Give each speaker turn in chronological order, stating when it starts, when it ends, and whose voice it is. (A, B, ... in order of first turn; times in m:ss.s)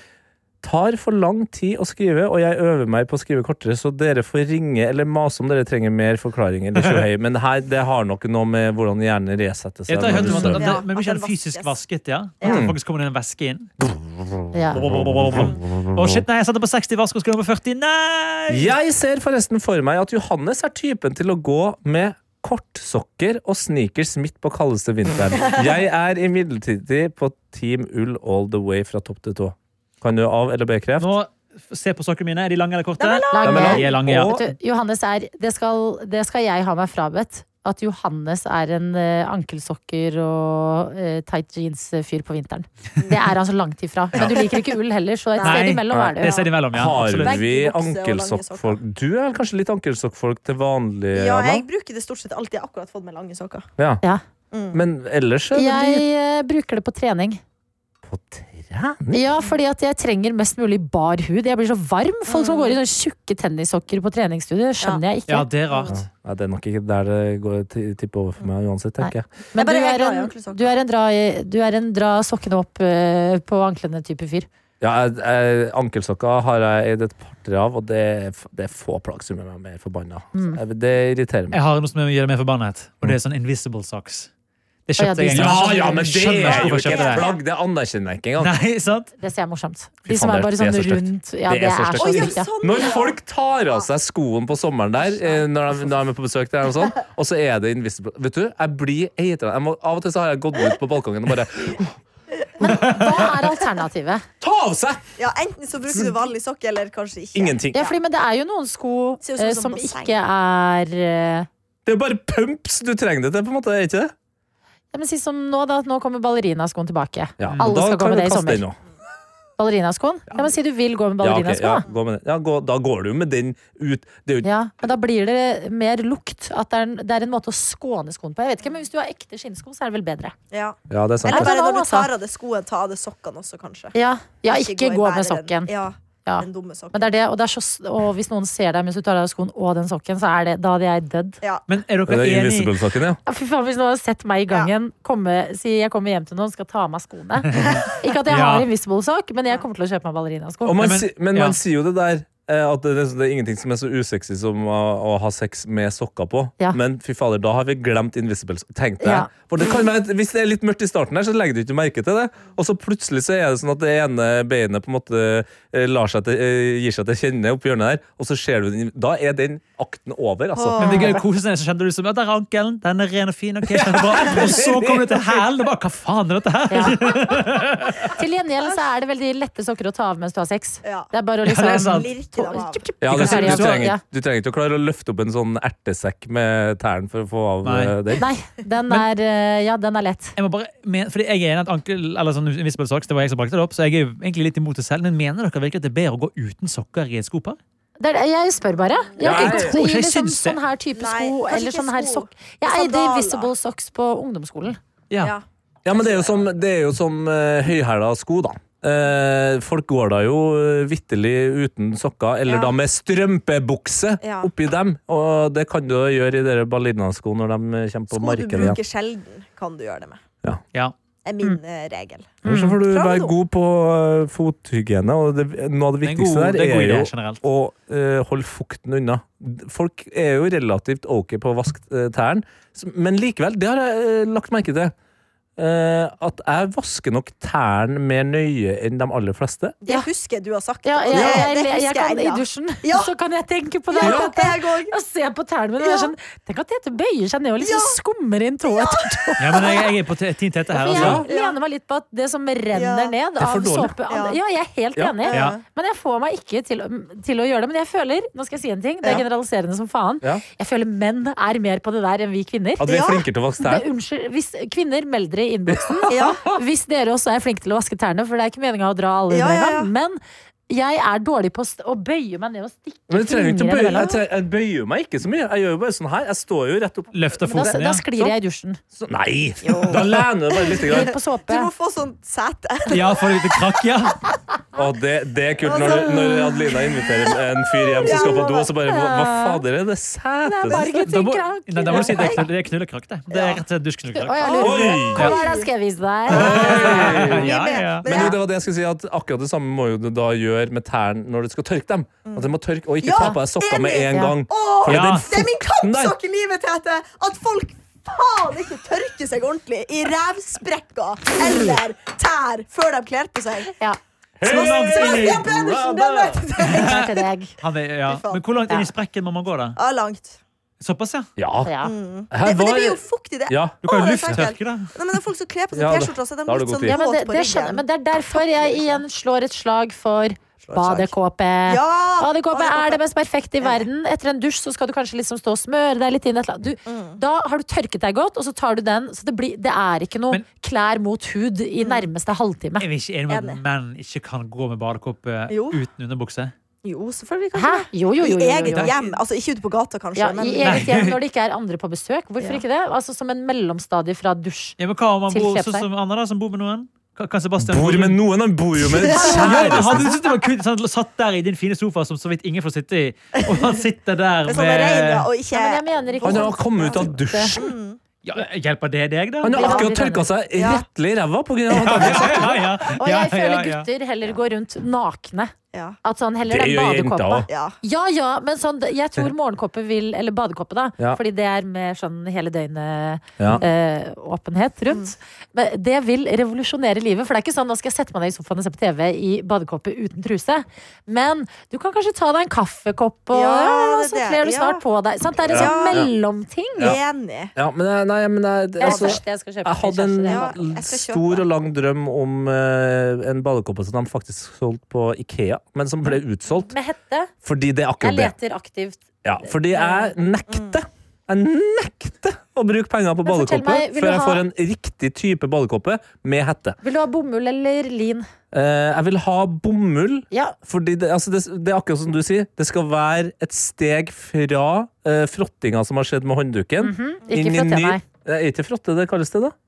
0:00.6-0:10.7 A
0:09.9-0:13.7 B
0:10.0-0:11.7 C
0:12.4-0:12.8 A
0:13.8-0:16.1 A
0:14.5-0:14.8 D
0:14.7-0:18.7 B
0:18.5-0:31.2 A
0:31.0-0:34.4 B
0:33.0-0:33.8 C
0:33.3-0:46.4 D
0:33.4-0:34.5 A
0:44.2-0:44.6 C
0:45.4-0:45.7 C
0:45.4-0:47.4 B
0:45.9-0:51.7 A
0:47.2-0:48.8 C
0:51.1-0:53.7 C
0:53.8-0:54.0 A
0:54.5-0:54.8 C
0:54.7-0:56.0 A
0:55.5-0:57.4 D
0:58.0-0:59.3 A
0:59.1-1:05.5 D
1:02.3-1:02.8 C
1:05.3-1:06.0 B
1:05.9-1:09.3 A
1:09.0-1:14.5 D
1:09.5-1:10.7 C
1:14.8-1:21.6 A
1:20.3-1:20.6 D
1:21.5-1:24.3 B
1:24.9-1:27.3 B
1:25.0-1:26.3 D
1:25.3-1:28.6 A
1:26.4-1:27.4 C
1:28.4-1:29.1 B
1:29.2-1:32.5 D
1:30.1-1:42.0 A
1:32.0-1:33.2 C
1:35.1-1:35.4 C
1:42.6-1:44.2 D
1:42.6-1:43.2 A
1:44.4-1:45.1 A
1:45.2-1:47.9 C
1:47.3-1:47.9 A
1:47.7-1:51.5 D
1:49.2-1:50.1 C
1:51.9-1:54.1 A
1:54.9-1:58.6 D
1:57.4-1:58.8 A
1:57.4-1:57.7 B
1:59.6-2:01.9 D
2:01.2-2:04.5 A
2:04.4-2:10.4 D
2:10.5-2:13.9 C
2:10.9-2:11.5 A
2:11.3-2:12.1 D
2:13.9-2:15.7 D
2:14.4-2:17.1 C
2:16.2-2:21.4 D
2:21.7-2:22.7 B
2:22.1-2:23.2 A
2:23.2-2:30.8 D
2:27.5-2:28.7 B
2:30.6-2:50.9 A
2:30.8-2:31.6 B
2:39.0-2:39.3 D
2:50.5-2:51.2 C
2:50.8-2:58.0 B
2:50.8-2:51.1 D
2:53.7-2:55.4 A
2:56.7-2:57.0 D
2:58.1-3:04.0 D
3:00.8-3:01.1 C
3:01.4-3:02.1 B
3:01.9-3:03.4 C
3:03.0-3:08.2 A
3:03.1-3:03.8 B
3:07.6-3:07.9 B
3:08.2-3:10.4 D
3:10.4-3:17.6 B
3:18.0-3:24.8 D
3:19.2-3:19.8 A
3:19.2-3:20.6 B
3:20.9-3:23.5 C
3:25.2-3:26.4 C
3:25.8-3:38.8 A
3:32.5-3:32.7 C
3:34.2-3:34.5 C
3:38.1-3:40.2 C
3:41.2-3:43.3 C
3:42.4-3:42.8 D
3:42.4-3:54.9 A
3:46.0-3:47.4 B
3:55.6-3:59.8 A
3:59.8-4:03.1 C
4:00.8-4:09.8 D
4:01.1-4:01.5 A
4:03.9-4:04.9 C
4:04.0-4:04.3 A
4:05.8-4:06.1 C
4:07.6-4:08.0 C
4:08.6-4:09.8 C
4:09.4-4:11.2 B
4:10.7-4:23.0 D
4:10.9-4:11.2 A
4:11.2-4:11.6 C
4:12.7-4:13.2 C
4:13.4-4:13.9 A
4:14.1-4:14.4 C
4:15.2-4:15.6 C
4:15.3-4:15.6 B
4:22.8-4:23.9 A
4:22.9-4:23.2 C
4:23.6-4:34.2 D
4:25.7-4:26.6 A
4:26.1-4:26.4 C
4:29.3-4:29.9 C
4:33.1-4:37.8 A
4:33.9-4:34.2 C
4:37.1-4:38.3 B
4:37.4-4:38.8 D
4:38.9-4:41.2 A
4:39.6-4:43.6 C
4:40.8-4:41.7 D
4:42.9-4:44.2 B
4:44.8-4:51.0 A
4:45.6-4:47.4 C
4:47.9-4:48.7 C
4:48.8-4:49.6 D
4:50.4-4:52.4 D
4:51.0-4:55.4 B
4:51.9-4:52.4 C
4:53.3-4:53.6 C
4:54.1-4:56.7 D
4:54.4-4:55.7 C
4:54.6-4:55.4 A
4:56.3-5:06.2 A
4:56.3-4:58.3 B
4:56.4-4:58.4 C
5:02.2-5:02.5 C
5:03.0-5:13.7 C
5:04.8-5:05.3 B
5:14.4-5:16.4 A
5:14.4-5:17.2 C
5:14.4-5:15.5 B
5:16.6-5:17.0 B
5:16.7-5:17.5 D
5:17.6-5:19.8 B
5:18.1-5:18.4 C
5:19.8-5:20.4 C
5:20.8-5:21.3 B
5:21.4-5:21.7 A
5:21.6-5:21.9 D
5:21.8-5:29.0 C
5:22.3-5:23.8 A
5:23.8-5:24.9 B
5:25.7-5:27.0 A
5:26.9-5:42.9 D
5:30.6-5:31.1 C
5:31.7-5:33.0 C
5:33.6-5:33.9 C
5:36.9-5:37.2 C
5:41.8-5:42.1 C
5:42.8-5:46.5 B
5:43.3-5:43.6 C
5:45.5-5:45.8 C
5:46.8-5:51.0 C
5:47.5-5:49.1 D
5:48.7-5:48.9 B
5:50.2-5:54.8 D
5:50.6-5:51.2 B
5:54.8-5:58.2 B
5:55.3-5:55.8 D
5:57.6-6:00.1 A
5:59.1-6:00.1 D
5:59.1-6:05.3 B
6:04.5-6:08.0 C
6:05.5-6:07.6 D
6:06.2-6:07.7 A
6:08.2-6:09.5 B
6:09.4-6:12.9 A
6:09.5-6:10.3 D
6:09.6-6:09.9 C
6:10.5-6:10.8 C
6:11.7-6:13.9 B
6:13.0-6:15.5 D
6:16.0-6:37.0 D
6:16.5-6:17.5 A
6:17.5-6:17.8 C
6:33.3-6:34.8 C
6:35.4-6:36.1 C
6:35.5-6:36.1 A
6:36.8-6:37.5 C
6:37.5-6:46.7 A
6:38.8-6:40.6 D
6:38.8-6:39.2 C
6:40.3-6:41.4 C
6:46.6-6:47.3 D
6:47.4-6:48.3 A
6:48.0-6:50.1 D
6:49.2-6:56.8 A
6:50.5-6:50.8 C
6:53.2-6:54.4 D
6:56.8-6:58.2 D
6:58.5-7:09.5 A
7:00.3-7:00.6 D
7:06.8-7:08.0 D